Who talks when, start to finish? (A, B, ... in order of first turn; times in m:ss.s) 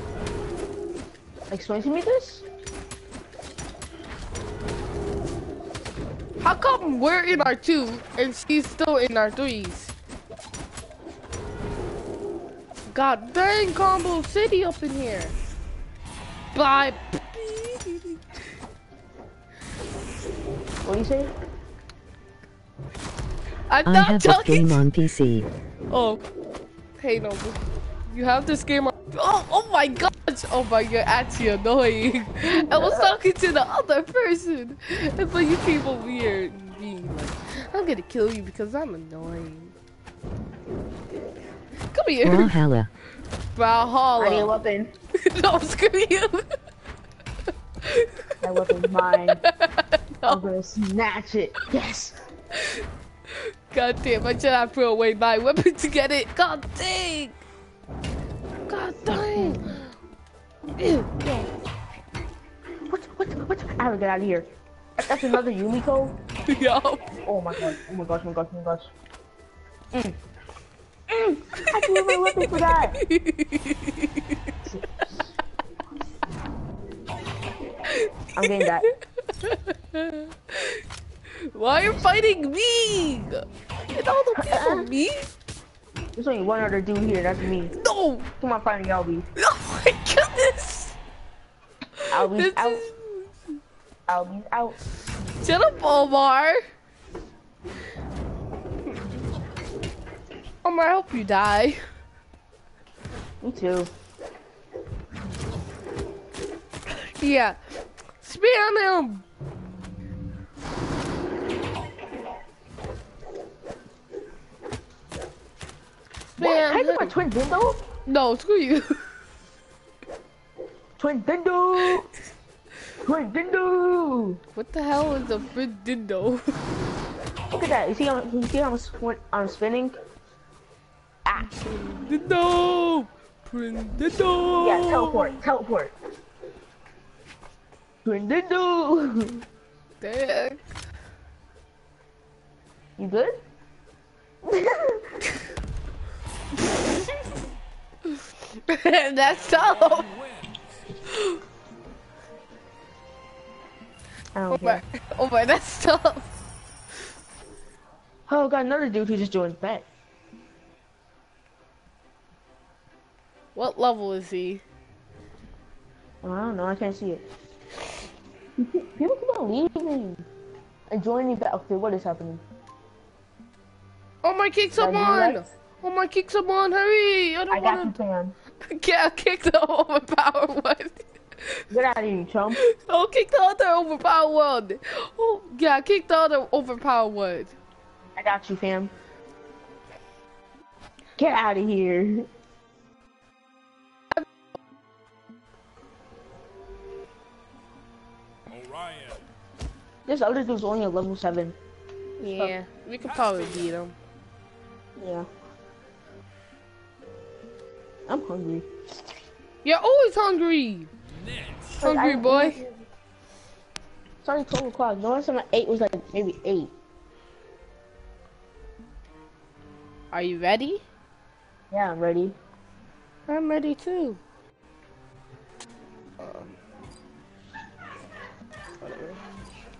0:01.5-0:02.4 A
0:06.4-0:09.9 B
0:12.9-0:15.4 B
0:16.5-0:18.2 B
0:20.8-0:21.3 A
0:23.7-0:24.8 B
0:23.8-0:25.5 C
0:25.9-0:26.2 B
0:27.0-0:27.6 B
0:28.1-0:39.8 B
0:32.5-0:33.1 A
0:41.9-0:42.6 B
0:42.2-0:42.9 C
0:43.6-0:44.5 B
0:44.2-0:44.9 A
0:45.1-0:46.5 B
0:47.8-0:48.1 B
0:48.4-0:49.4 A
0:49.1-0:50.4 B
0:50.2-0:52.2 A
0:52.5-0:52.8 B
0:53.7-0:57.4 B
0:58.7-0:59.9 B
0:59.1-0:59.6 A
1:00.8-1:01.5 B
1:02.9-1:06.2 A
1:06.5-1:07.1 B
1:07.2-1:08.9 A
1:09.9-1:10.2 A
1:11.1-1:13.0 A
1:11.6-1:14.4 B
1:14.6-1:15.3 A
1:17.9-1:20.8 B
1:18.4-1:18.9 A
1:21.4-1:25.3 B
1:24.3-1:24.9 A
1:26.2-1:27.7 A
1:27.8-1:28.3 B
1:28.4-1:29.3 A
1:29.4-1:31.0 B
1:32.0-1:33.5 B
1:32.1-1:32.8 A
1:34.1-1:34.8 A
1:35.4-1:36.6 B
1:40.6-1:41.8 B
1:43.4-1:43.9 A
1:47.0-1:47.6 B
1:48.2-1:49.2 B
1:56.3-1:57.1 B
1:56.4-1:57.9 A
1:58.0-1:59.0 B
2:01.0-2:02.1 A
2:03.0-2:04.4 A
2:04.6-2:06.6 B
2:07.5-2:10.0 A
2:11.2-2:11.5 A
2:11.6-2:15.4 B
2:14.6-2:15.9 A
2:18.0-2:19.4 A
2:20.0-2:20.6 B
2:23.0-2:23.4 A
2:24.4-2:25.2 A
2:26.6-2:27.1 B
2:28.7-2:30.1 B
2:29.2-2:30.9 D
2:31.1-2:31.4 B
2:34.4-2:34.8 A
2:34.5-2:36.3 B
2:38.3-2:39.8 A
2:43.5-2:44.6 B
2:46.2-2:47.2 A
2:48.6-2:50.2 A
2:50.9-2:52.4 A
2:54.2-2:58.0 B
2:54.8-2:55.4 A
2:57.5-2:58.3 A
2:58.6-3:01.6 B
3:01.7-3:02.6 A
3:02.6-3:07.5 B
3:08.2-3:08.9 A
3:11.2-3:12.3 A
3:18.5-3:19.2 D
3:20.0-3:21.6 A
3:22.2-3:24.0 B
3:22.2-3:22.5 A
3:23.0-3:23.7 D
3:25.0-3:25.3 A
3:28.1-3:28.7 A
3:29.6-3:30.9 B
3:31.0-3:31.8 D
3:31.8-3:32.9 A
3:31.8-3:32.6 B
3:34.2-3:36.7 A
3:40.1-3:40.8 B
3:41.7-3:42.4 A
3:43.3-3:44.2 B
3:46.2-3:46.6 B
3:48.8-3:49.2 B